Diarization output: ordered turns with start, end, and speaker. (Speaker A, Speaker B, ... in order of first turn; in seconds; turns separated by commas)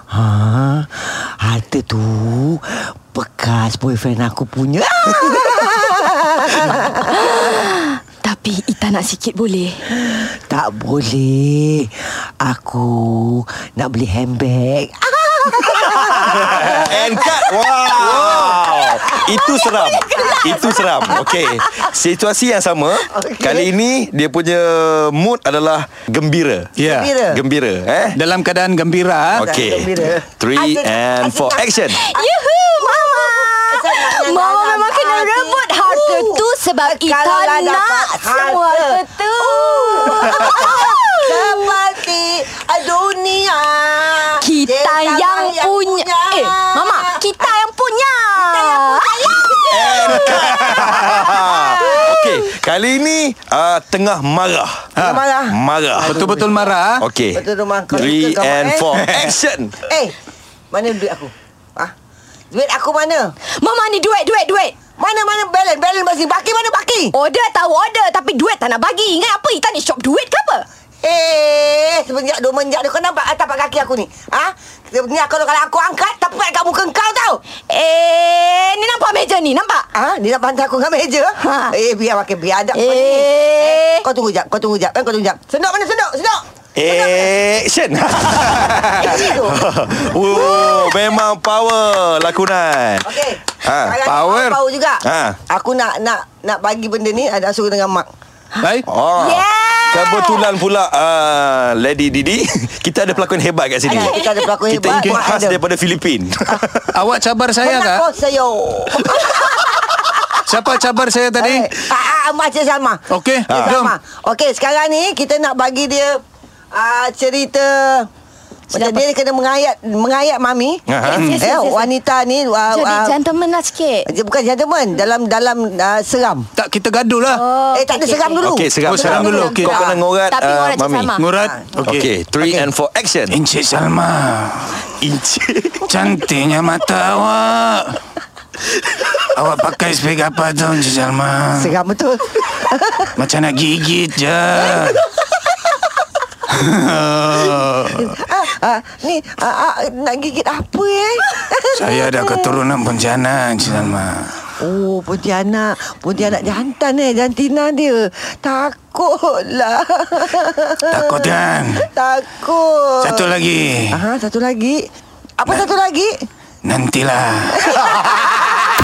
Speaker A: 0.1-7.2, Speaker B: 7.1-9.8, Speaker A: 10.1-18.9, Speaker C: 16.1-26.7, Speaker B: 19.4-20.8, Speaker A: 20.2-21.9, Speaker A: 23.1-23.7, Speaker D: 26.8-27.1, Speaker A: 26.8-27.4, Speaker C: 27.3-28.2, Speaker D: 28.1-29.5, Speaker C: 29.3-32.0, Speaker A: 29.4-47.5, Speaker B: 31.9-41.6, Speaker B: 44.4-50.4, Speaker A: 48.4-52.2, Speaker C: 49.7-54.9, Speaker D: 50.6-51.0, Speaker B: 51.6-52.0, Speaker A: 55.0-56.7, Speaker D: 55.0-55.2, Speaker C: 55.5-56.4, Speaker D: 56.0-57.0, Speaker C: 57.0-59.8, Speaker A: 57.3-59.0, Speaker D: 59.0-59.3, Speaker A: 59.9-60.1, Speaker A: 60.7-61.9, Speaker A: 62.5-63.3, Speaker B: 63.5-64.7, Speaker A: 65.0-67.1, Speaker B: 67.1-70.6, Speaker A: 71.0-77.4, Speaker B: 77.7-79.9, Speaker A: 79.9-87.3, Speaker B: 81.4-81.7, Speaker B: 82.7-84.0, Speaker C: 86.8-94.0, Speaker A: 88.9-89.6, Speaker A: 93.0-98.1, Speaker D: 94.0-94.6, Speaker C: 95.0-95.4, Speaker D: 98.6-98.9, Speaker C: 98.9-106.9, Speaker B: 99.2-100.2, Speaker A: 103.8-105.6, Speaker B: 103.9-104.5, Speaker D: 104.9-105.2, Speaker D: 106.9-108.0, Speaker A: 107.6-110.4, Speaker D: 110.5-111.7, Speaker A: 111.3-116.2, Speaker D: 113.1-113.9, Speaker C: 113.5-113.8, Speaker A: 116.7-118.1, Speaker A: 118.7-120.9, Speaker B: 118.7-119.0, Speaker C: 120.9-121.3, Speaker B: 121.0-121.9, Speaker D: 121.2-121.5, Speaker A: 121.4-123.1, Speaker B: 122.7-124.1, Speaker A: 124.1-126.5, Speaker D: 126.5-127.4, Speaker B: 127.2-131.3, Speaker A: 127.7-129.5, Speaker C: 128.4-131.1, Speaker D: 128.8-129.8, Speaker D: 131.2-132.7, Speaker A: 131.3-131.7, Speaker C: 131.8-133.4, Speaker D: 133.3-135.0, Speaker C: 135.0-135.8, Speaker D: 135.8-138.0, Speaker D: 139.3-141.7, Speaker A: 141.5-143.1, Speaker D: 143.2-144.8, Speaker A: 144.6-145.0, Speaker D: 146.5-148.0, Speaker A: 147.9-152.6, Speaker D: 151.7-154.3, Speaker A: 154.6-163.3, Speaker D: 160.9-161.8, Speaker D: 163.0-164.0, Speaker A: 163.9-164.9, Speaker A: 165.4-166.2, Speaker D: 166.6-167.6, Speaker A: 167.6-168.6